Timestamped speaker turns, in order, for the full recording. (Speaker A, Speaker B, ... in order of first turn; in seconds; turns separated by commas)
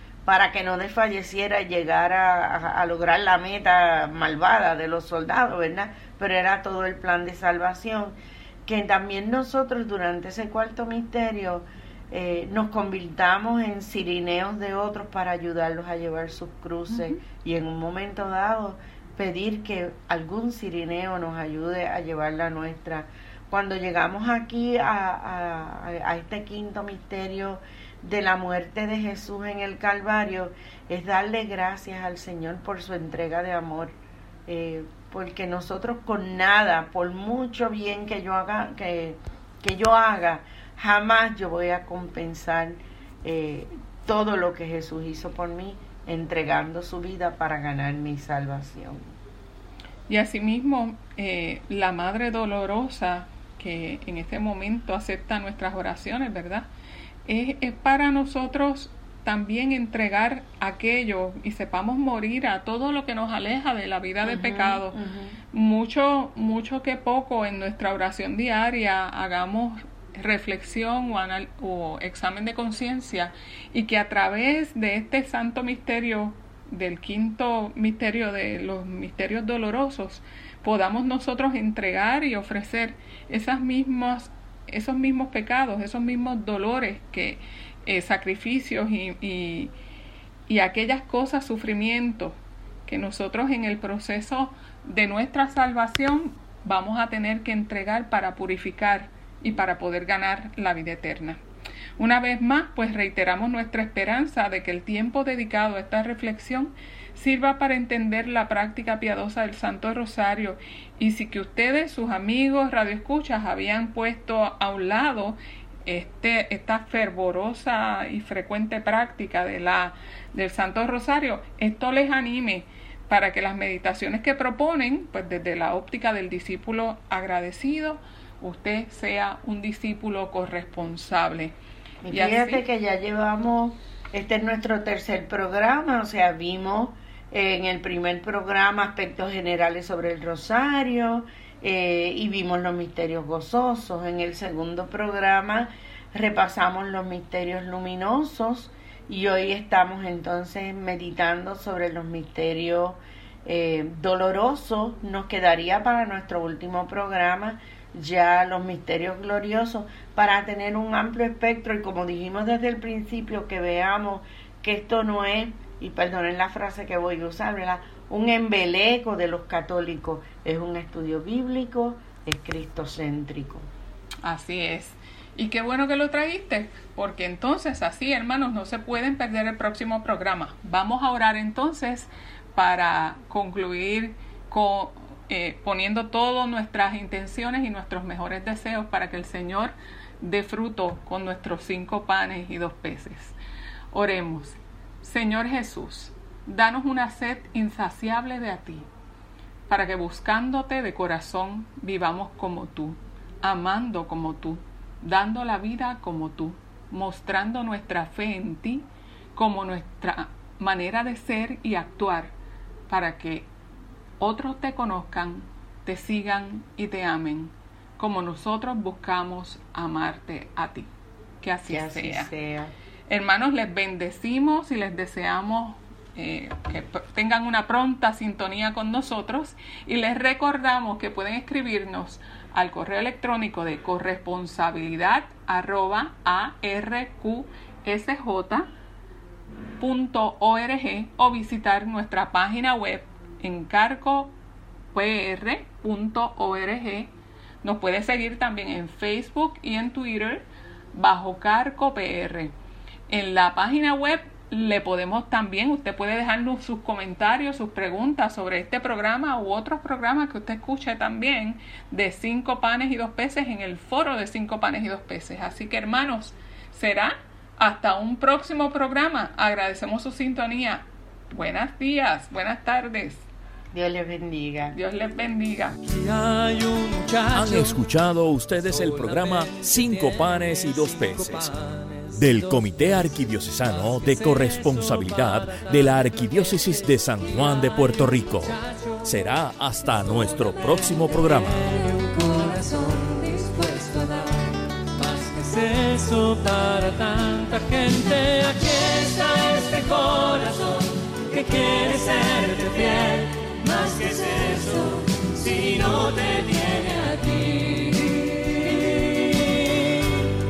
Speaker A: 0.2-33.9, Speaker B: 16.9-17.2, Speaker A: 34.5-49.1, Speaker B: 50.1-56.7, Speaker B: 57.2-65.0, Speaker A: 64.2-65.4, Speaker B: 65.5-89.7, Speaker B: 90.5-101.4, Speaker B: 102.0-131.6, Speaker A: 132.0-173.7, Speaker B: 132.1-132.6, Speaker B: 174.2-193.4, Speaker B: 193.9-198.9, Speaker B: 199.7-212.3, Speaker B: 212.9-213.5, Speaker B: 214.2-220.9, Speaker B: 221.4-222.3, Speaker A: 221.7-222.7, Speaker B: 223.1-238.7, Speaker B: 239.8-244.3, Speaker B: 244.9-247.1, Speaker B: 247.6-252.5, Speaker B: 253.1-273.2, Speaker A: 273.7-274.8, Speaker B: 274.7-275.8, Speaker C: 275.8-277.8, Speaker D: 277.3-281.5, Speaker C: 278.6-289.0, Speaker D: 282.1-291.6, Speaker C: 289.8-309.9